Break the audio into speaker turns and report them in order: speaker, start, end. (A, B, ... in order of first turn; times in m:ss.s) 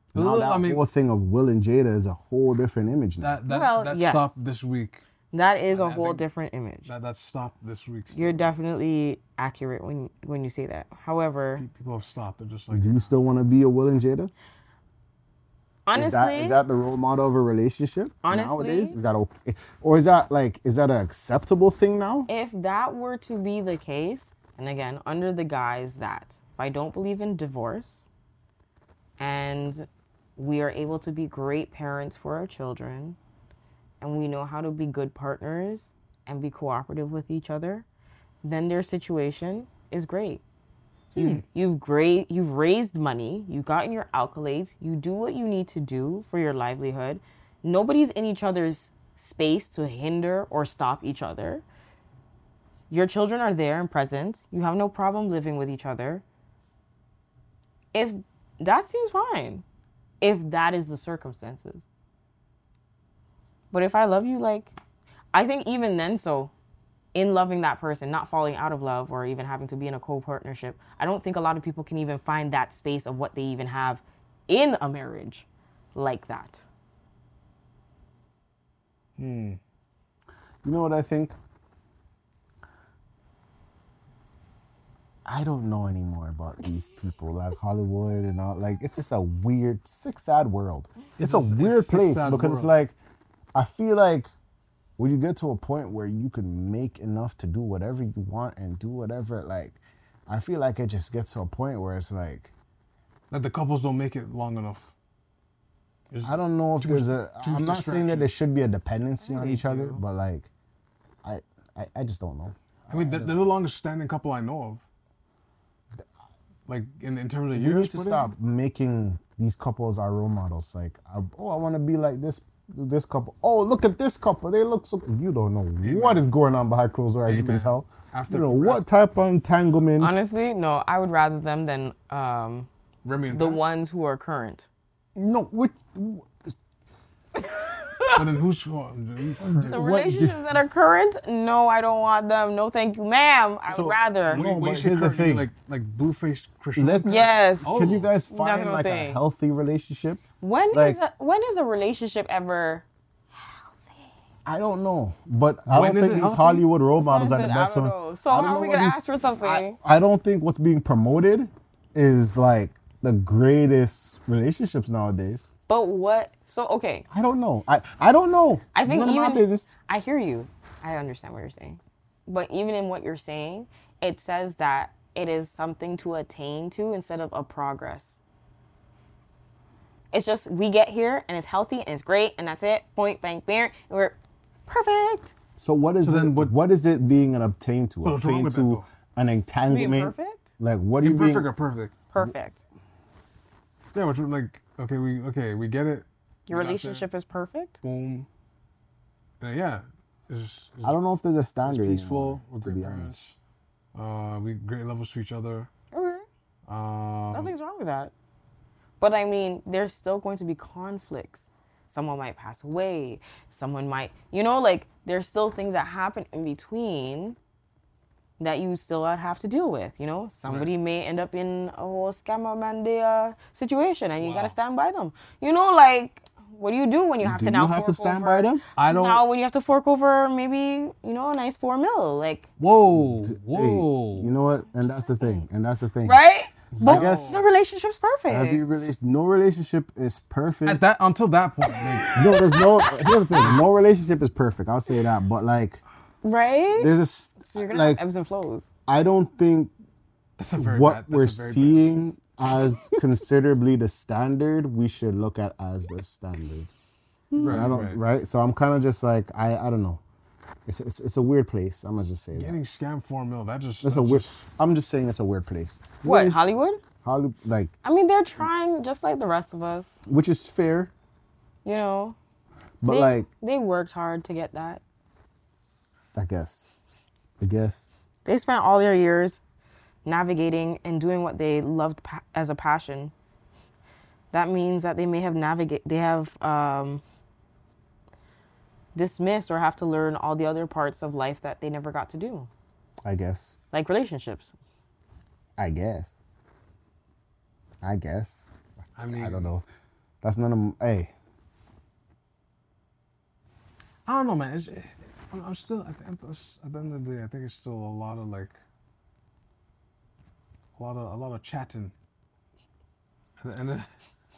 0:00.1-0:03.3 A
0:00.2-0:00.8 B
0:03.2-0:05.0 B
0:03.5-0:04.4 C
0:05.3-0:06.9 C
0:05.7-0:06.2 B
0:06.9-0:08.5 B
0:08.1-0:11.7 C
0:11.6-0:13.1 B
0:12.7-0:14.3 A
0:15.9-0:16.6 C
0:16.0-0:22.3 A
0:18.2-0:19.0 C
0:22.3-0:28.1 C
0:29.2-0:33.2 C
0:34.0-0:37.8 C
0:38.4-0:40.4 C
0:41.2-0:51.6 C
0:41.2-0:41.4 B
0:52.9-0:56.2 C
0:57.9-0:59.6 C
1:00.2-1:01.9 C
1:03.7-1:04.7 C
1:05.3-1:06.5 C
1:07.1-1:16.6 C
1:19.2-1:19.6 B
1:20.6-1:21.4 A
1:25.3-1:33.0 A
1:31.2-1:32.7 B
1:33.6-1:34.3 A
1:35.0-1:42.5 A
1:43.3-1:44.9 B
1:46.1-1:48.3 B
1:46.2-1:50.5 A
1:49.2-1:50.0 C
1:51.2-1:53.5 A
1:52.9-1:54.8 B
1:56.7-1:58.3 B
1:57.5-2:10.1 A
2:05.8-2:06.2 B
2:07.3-2:08.8 B
2:10.0-2:12.7 C
2:13.0-2:13.6 B
2:13.3-2:14.7 C
2:15.2-2:16.5 A
2:17.4-2:18.2 C
2:18.2-2:19.8 B
2:19.4-2:20.4 A
2:19.7-2:24.4 C
2:23.7-2:25.5 A
2:24.3-2:28.1 B
2:26.8-2:31.0 A
2:27.1-2:27.7 C
2:28.3-2:29.2 C
2:30.4-2:33.7 C
2:34.5-2:45.4 A
2:35.7-2:36.7 B
2:37.0-2:39.8 C
2:45.7-2:47.1 C
2:47.1-2:49.7 A
2:48.7-2:58.2 C
3:00.1-3:05.4 C
3:05.6-3:11.5 A
3:06.0-3:06.5 B
3:08.0-3:08.9 B
3:09.7-3:10.5 C
3:11.0-3:12.0 B
3:12.1-3:12.6 C
3:13.9-3:17.1 B
3:16.5-3:17.8 C
3:17.8-3:18.3 B
3:19.4-3:21.0 B
3:20.8-3:23.2 A
3:21.6-3:23.4 B
3:24.0-3:25.7 B
3:25.9-3:26.2 C
3:26.7-3:27.5 B
3:27.3-3:28.1 C
3:29.0-3:37.4 C
3:38.4-3:52.5 C
3:40.5-3:40.7 B
3:44.2-3:44.6 B
3:47.2-3:48.6 A
3:48.8-3:49.2 B
3:52.6-3:54.3 B
3:52.9-3:56.2 A
3:54.8-3:55.5 C
3:56.0-3:58.9 C
3:56.7-3:57.4 B
3:56.8-3:57.4 A
3:58.3-4:00.8 A
4:00.6-4:02.1 B
4:01.7-4:03.6 C
4:02.2-4:05.8 A
4:06.2-4:06.9 C
4:06.8-4:08.0 A
4:07.5-4:08.7 C
4:08.9-4:09.7 A
4:10.4-4:12.0 B
4:10.6-4:16.7 A
4:12.6-4:13.0 C
4:17.3-4:17.6 C
4:17.4-4:18.0 B
4:17.4-4:20.0 A
4:20.7-4:22.6 A
4:22.3-4:24.4 B
4:23.8-4:26.4 A
4:26.0-4:26.8 C
4:27.0-4:27.7 A
4:27.8-4:30.0 C
4:30.1-4:30.9 A
4:31.6-4:32.2 C
4:32.8-4:33.3 A
4:32.9-4:34.8 C
4:36.2-4:36.7 A
4:37.4-4:37.9 A
4:38.2-4:39.4 C
4:40.0-4:43.1 C
4:44.3-4:47.0 C
4:49.0-4:52.5 C
4:53.0-4:53.6 A
4:53.7-4:54.5 C
4:55.6-4:56.2 A
4:57.8-4:59.6 A
4:59.0-4:59.5 B
5:00.2-5:01.1 A
5:04.1-5:08.6 B
5:10.8-5:11.9 B
5:13.4-5:13.9 B